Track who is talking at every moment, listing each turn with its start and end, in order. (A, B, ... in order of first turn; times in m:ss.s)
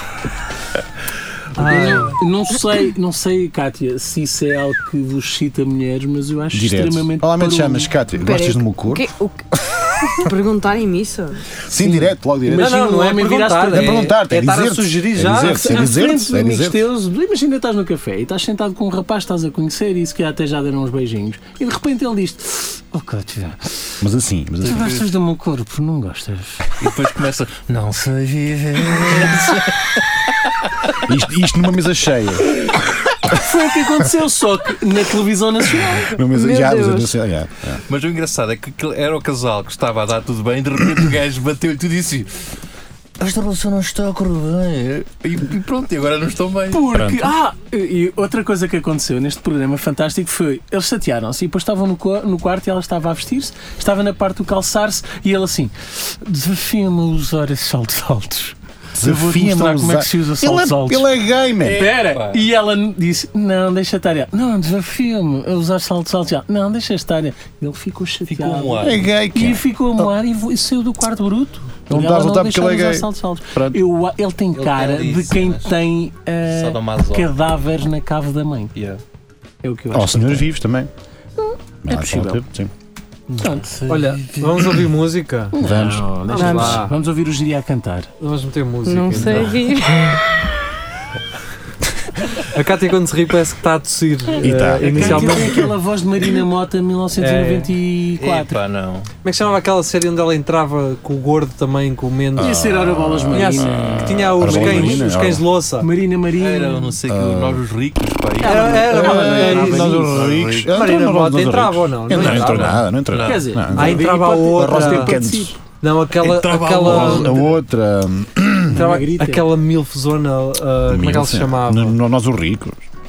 0:01.6-0:02.2 A
0:01.6-0:07.9 B
0:06.5-0:09.1 C
0:08.2-0:09.4 D
0:10.1-0:11.4 D
0:11.7-0:12.8 C
0:11.8-0:14.1 B
0:12.6-0:15.8 A
0:13.7-0:16.9 C
0:15.4-0:24.0 B
0:24.0-0:25.0 C
0:24.6-0:26.7 B
0:24.7-0:25.1 E
0:26.8-0:30.3 E
0:31.1-0:32.7 C
0:33.3-0:36.2 B
0:36.1-0:37.8 C
0:36.3-0:37.1 D
0:37.9-0:42.5 E
0:43.2-0:46.9 E
0:46.7-1:01.1 B
0:46.9-0:47.3 C
0:59.0-1:01.9 C
1:01.6-1:18.7 B
1:01.8-1:02.4 E
1:08.3-1:09.1 E
1:08.8-1:10.1 C
1:11.9-1:13.8 C
1:14.5-1:15.8 E
1:16.5-1:17.3 E
1:18.8-1:19.0 E
1:19.6-1:20.5 B
1:19.9-1:20.9 C
1:21.4-1:22.4 B
1:21.8-1:22.7 C
1:23.3-1:24.8 B
1:23.9-1:25.6 A
1:25.5-1:28.1 B
1:25.6-1:26.8 C
1:26.3-1:27.0 A
1:26.4-1:26.8 D
1:28.2-1:29.6 A
1:28.9-1:30.4 D
1:32.3-1:35.7 A
1:34.4-1:35.7 C
1:34.8-1:38.6 B
1:37.2-1:37.8 A
1:38.2-1:39.1 E
1:39.2-1:42.6 A
1:42.4-1:45.4 C
1:42.4-1:45.1 B
1:43.3-1:45.9 A
1:45.8-1:47.0 B
1:46.4-1:48.8 E
1:47.1-1:47.6 C
1:48.4-1:50.0 A
1:48.5-1:50.1 B
1:48.8-1:55.6 C
1:49.7-1:50.7 E
1:50.7-1:52.8 A
1:52.2-1:53.5 E
1:53.2-1:55.6 B
1:53.7-1:55.2 A
1:55.8-1:57.4 A
1:56.2-1:57.5 E
1:56.8-1:58.9 C
1:56.9-1:57.4 B
1:58.7-1:59.5 B
1:58.7-2:02.0 A
2:00.9-2:02.8 C